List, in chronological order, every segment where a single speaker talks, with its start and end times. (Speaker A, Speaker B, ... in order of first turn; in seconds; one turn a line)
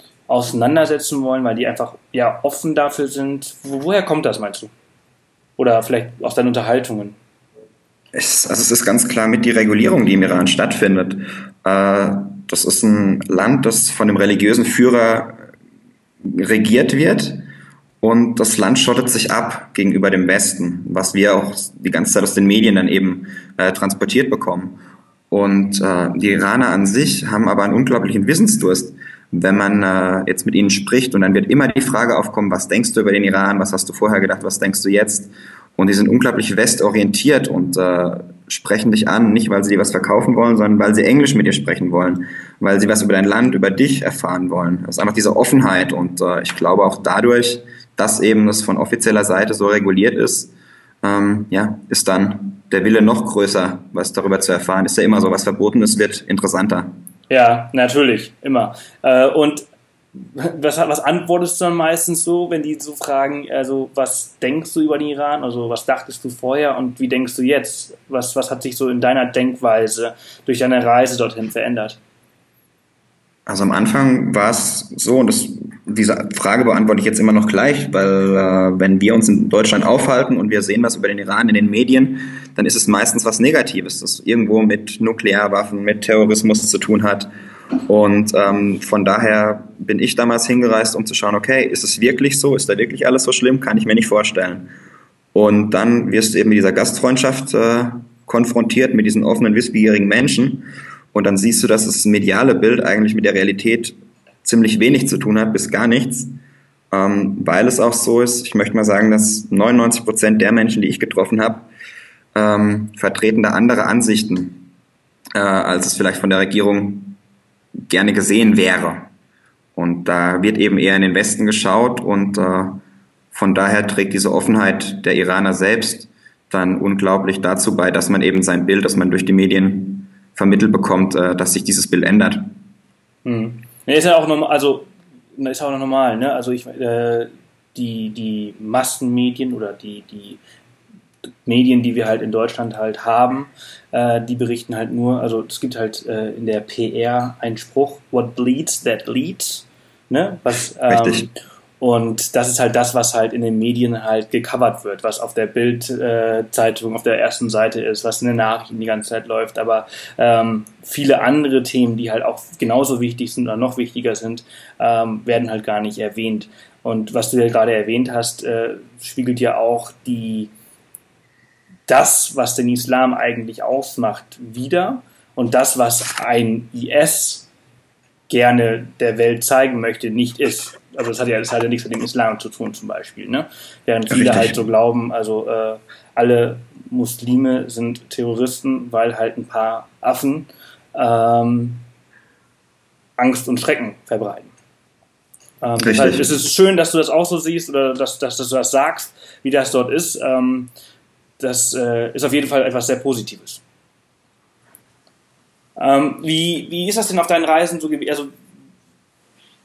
Speaker A: 0.3-4.7
Speaker A: 5.6-7.2
Speaker B: 8.1-15.4
Speaker B: 16.2-17.4
Speaker B: 18.0-24.8
Speaker B: 25.3-50.5
Speaker B: 51.0-56.9
Speaker A: 57.3-72.0
Speaker B: 73.5-87.3
Speaker B: 87.9-94.7
Speaker B: 95.3-106.3
Speaker B: 106.9-111.7
Speaker B: 112.3-114.6
Speaker B: 115.3-117.2
Speaker B: 117.8-119.1
Speaker B: 119.8-122.8
Speaker B: 123.3-132.5
Speaker A: 133.2-140.4
Speaker A: 141.4-170.5
Speaker B: 150.9-151.3
Speaker A: 171.9-177.5
Speaker A: 178.3-191.8
Speaker B: 184.1-184.6
Speaker A: 193.2-194.5
Speaker A: 195.6-200.7
Speaker B: 195.8-196.3
Speaker A: 201.4-203.6
Speaker A: 205.8-208.3